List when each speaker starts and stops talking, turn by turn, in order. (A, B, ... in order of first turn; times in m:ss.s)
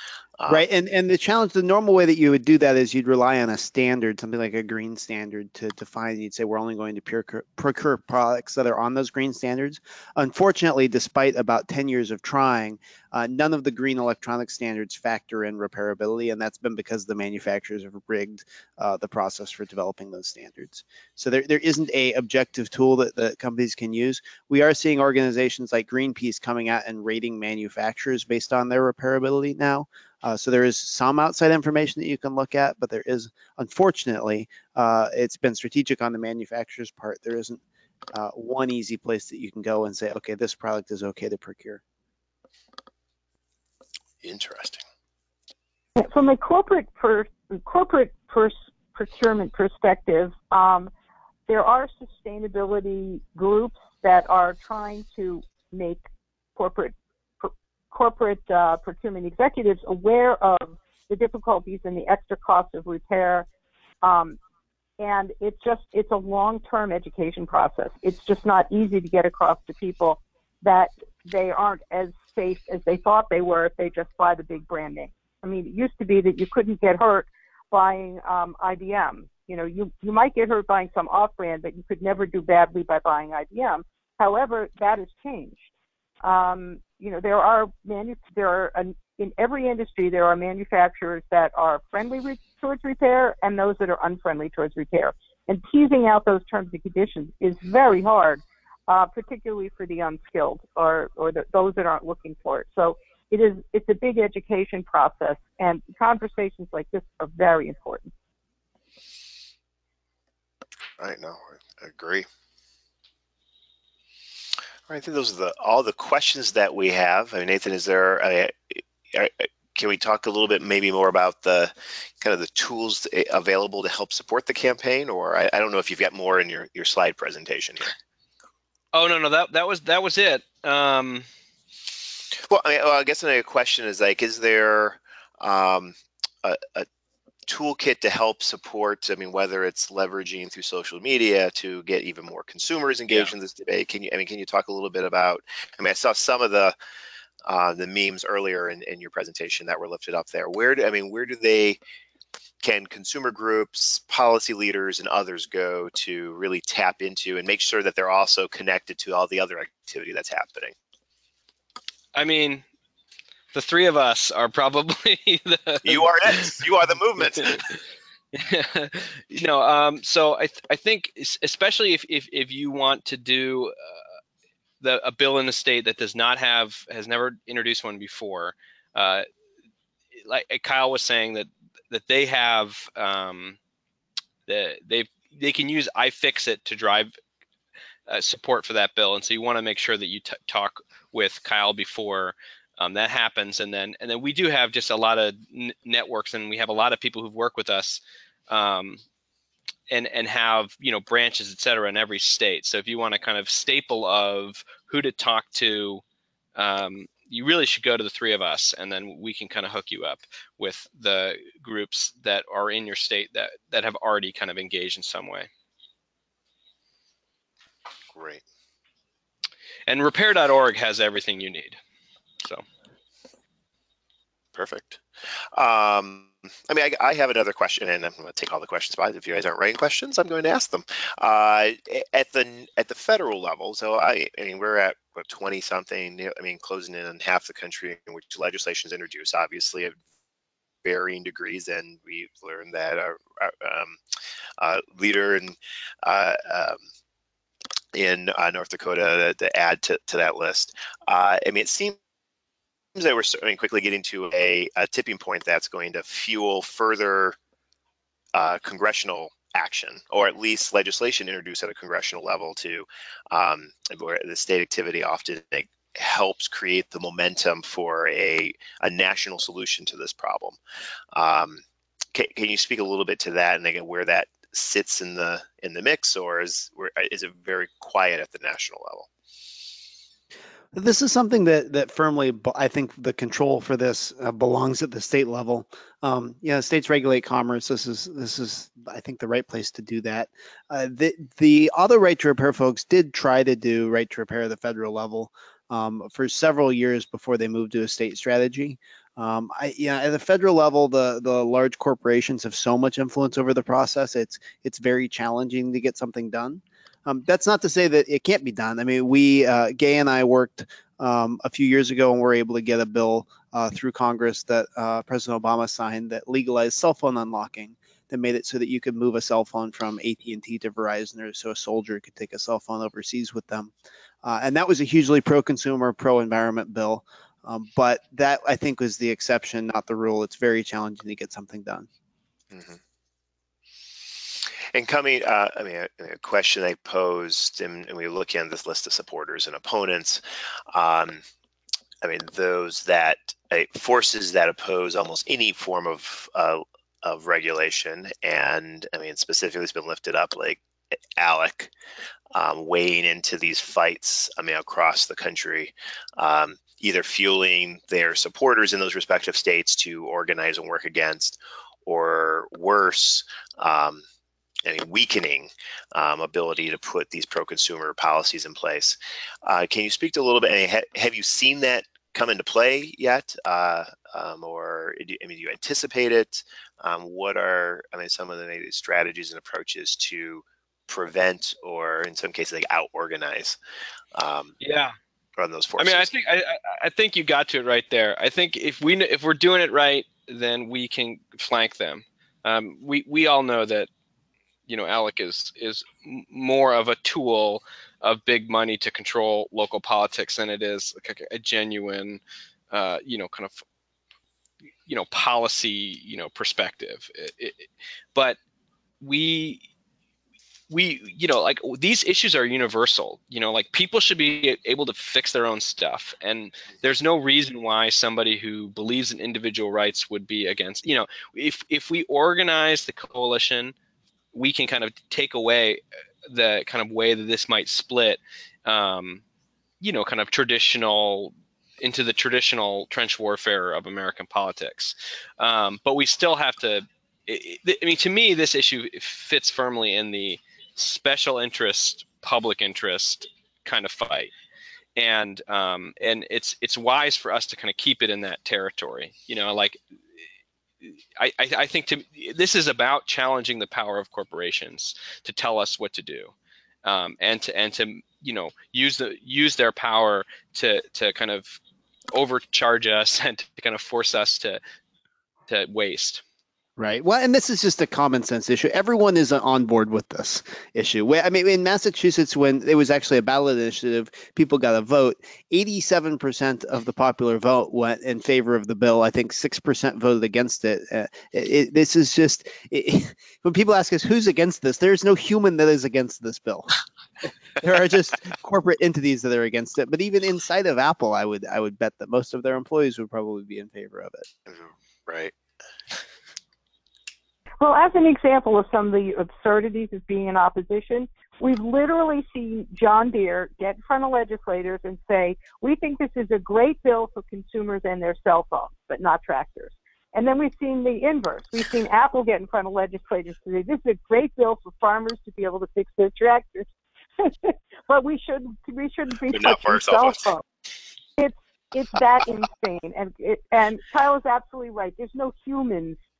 0:00.4-0:00.6 A
0:00.5-0:37.6 B
0:38.1-0:41.8 B
0:44.2-0:44.8 A
0:46.0-0:50.9 C
0:51.5-0:56.0 C
0:56.6-1:03.5 C
1:04.0-1:04.4 C
1:05.0-1:25.7 C
1:26.2-1:48.1 C
1:51.0-1:52.2 A
1:54.9-2:07.9 A
2:08.9-2:11.2 D
2:12.5-2:16.9 A
2:17.5-2:26.8 A
2:27.4-2:31.8 A
2:32.6-2:40.7 A
2:42.1-2:42.6 D
2:43.5-2:46.5 D
2:45.8-2:47.6 A
2:48.3-2:53.7 D
2:54.8-2:59.2 D
3:00.2-3:03.6 D
3:04.5-3:07.1 D
3:08.1-3:19.0 D
3:19.9-3:26.0 D
3:26.6-3:35.5 D
3:38.1-3:38.4 A
3:39.9-3:41.8 D
3:44.5-3:45.0 A
3:45.5-4:00.0 A
4:00.8-4:04.0 A
4:04.6-4:06.8 A
4:07.9-4:12.0 A
4:12.9-4:17.4 A
4:18.3-4:30.6 A
4:31.1-4:31.6 A
4:32.1-4:39.1 A
4:40.7-5:23.7 B
5:24.2-5:31.9 B
5:32.5-5:32.8 A
5:34.7-5:41.2 A
5:42.0-5:50.6 A
5:51.2-5:51.7 A
5:52.3-6:04.0 A
6:04.6-6:23.6 A
6:24.1-6:24.6 A
6:24.6-6:24.9 D
6:25.4-6:26.1 A
6:25.8-6:33.9 D
6:34.7-6:43.6 D
6:44.8-6:48.4 D
6:49.0-6:49.6 D
6:50.7-7:03.7 D
7:04.3-7:09.2 D
7:09.8-7:24.3 D
7:25.0-7:29.8 D
7:30.8-7:36.3 D
7:36.8-7:41.6 D
7:42.1-7:44.6 D
7:45.5-7:46.2 D
7:46.8-8:06.7 B
8:07.6-8:14.2 B
8:14.5-8:15.3 A
8:17.6-8:40.4 C
8:39.3-8:40.3 A
8:41.2-8:46.0 C